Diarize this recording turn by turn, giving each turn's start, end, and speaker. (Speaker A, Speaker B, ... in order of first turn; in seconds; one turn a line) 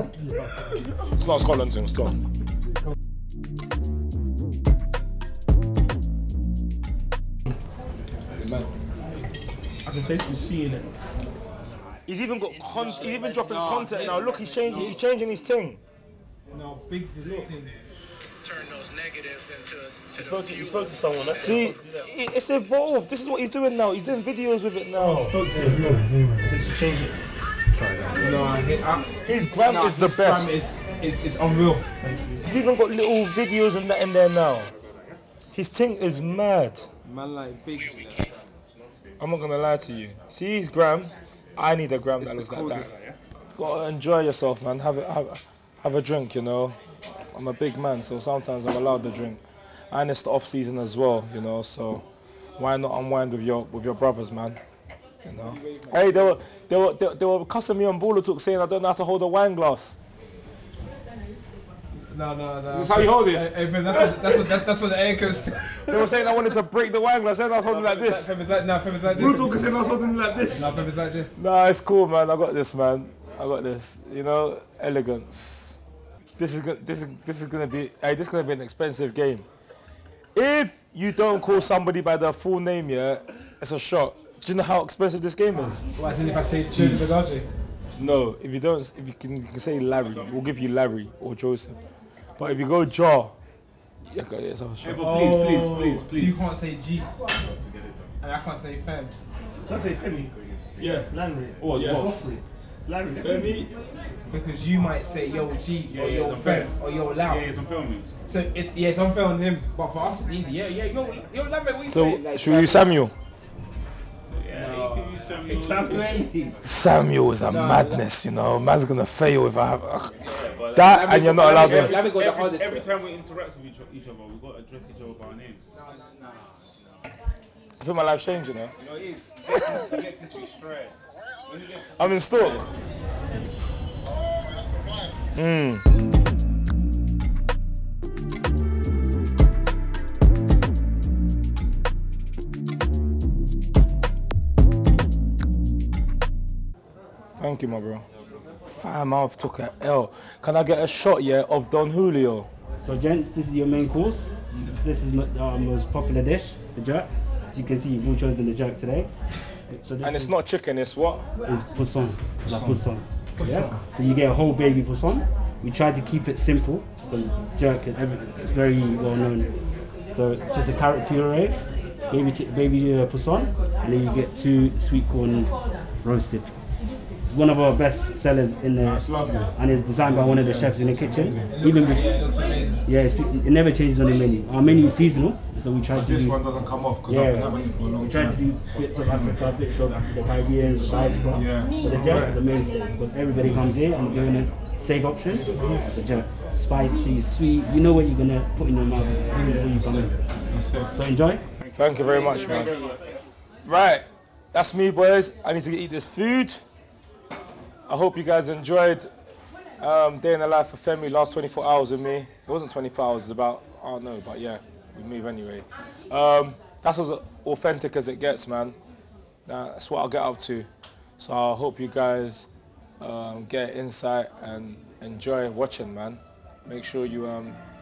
Speaker A: 1.1-2.2
Speaker B: 8.3-8.7
Speaker C: 9.8-10.9
Speaker A: 12.1-15.8
Speaker B: 13.3-14.9
Speaker D: 14.0-14.9
Speaker B: 16.5-17.8
Speaker C: 20.1-21.8
Speaker A: 21.4-27.1
Speaker B: 25.1-25.5
Speaker C: 25.3-26.8
Speaker C: 27.7-28.3
Speaker B: 28.1-31.9
Speaker A: 29.2-30.5
Speaker C: 32.0-32.4
Speaker A: 32.4-34.7
Speaker A: 35.5-36.9
Speaker B: 37.0-38.3
Speaker A: 39.2-42.9
Speaker A: 43.5-52.0
Speaker A: 52.6-54.6
Speaker A: 55.2-60.0
Speaker B: 55.3-56.4
Speaker B: 62.1-66.5
Speaker A: 62.7-64.5
Speaker A: 65.8-68.3
Speaker B: 67.6-71.4
Speaker A: 69.1-75.8
Speaker A: 76.4-79.5
Speaker A: 80.3-85.9
Speaker B: 85.9-87.5
Speaker A: 86.7-87.0
Speaker A: 88.0-91.8
Speaker A: 92.4-93.3
Speaker A: 94.0-96.1
Speaker D: 94.8-96.5
Speaker B: 96.0-97.1
Speaker D: 97.5-98.1
Speaker B: 98.2-99.2
Speaker C: 99.6-100.4
Speaker D: 100.4-100.6
Speaker A: 100.8-101.1
Speaker C: 100.9-103.6
Speaker D: 101.6-102.2
Speaker A: 101.7-102.2
Speaker A: 103.2-103.7
Speaker B: 104.3-107.5
Speaker D: 105.9-108.1
Speaker B: 108.3-113.0
Speaker A: 111.9-113.1
Speaker D: 114.2-116.5
Speaker B: 114.5-116.2
Speaker C: 115.5-116.5
Speaker A: 116.6-120.2
Speaker B: 117.4-118.0
Speaker D: 120.2-125.6
Speaker B: 120.2-122.9
Speaker A: 120.7-122.0
Speaker B: 125.7-126.0
Speaker A: 127.8-128.7
Speaker D: 128.8-130.9
Speaker D: 131.4-132.7
Speaker A: 131.9-132.7
Speaker A: 135.3-135.9
Speaker A: 147.4-148.0
Speaker A: 148.6-152.5
Speaker E: 152.8-159.1
Speaker A: 154.5-154.8
Speaker E: 159.7-160.3
Speaker A: 160.0-161.3
Speaker E: 161.4-169.5
Speaker A: 162.4-163.8
Speaker E: 170.1-176.5
Speaker E: 177.3-182.1
Speaker A: 178.8-181.6
Speaker B: 181.4-182.9
Speaker E: 182.8-186.4
Speaker A: 185.9-192.4
Speaker E: 187.1-200.2
Speaker B: 192.1-192.4
Speaker A: 193.3-193.8
Speaker A: 195.3-196.2
Speaker A: 199.3-200.9
Speaker E: 200.9-201.4
Speaker D: 201.6-203.2
Speaker A: 201.7-202.8
Speaker A: 203.6-206.6
Speaker A: 207.9-209.1
Speaker A: 209.8-218.8
Speaker A: 219.4-220.7
Speaker A: 221.2-222.5
Speaker A: 223.0-227.6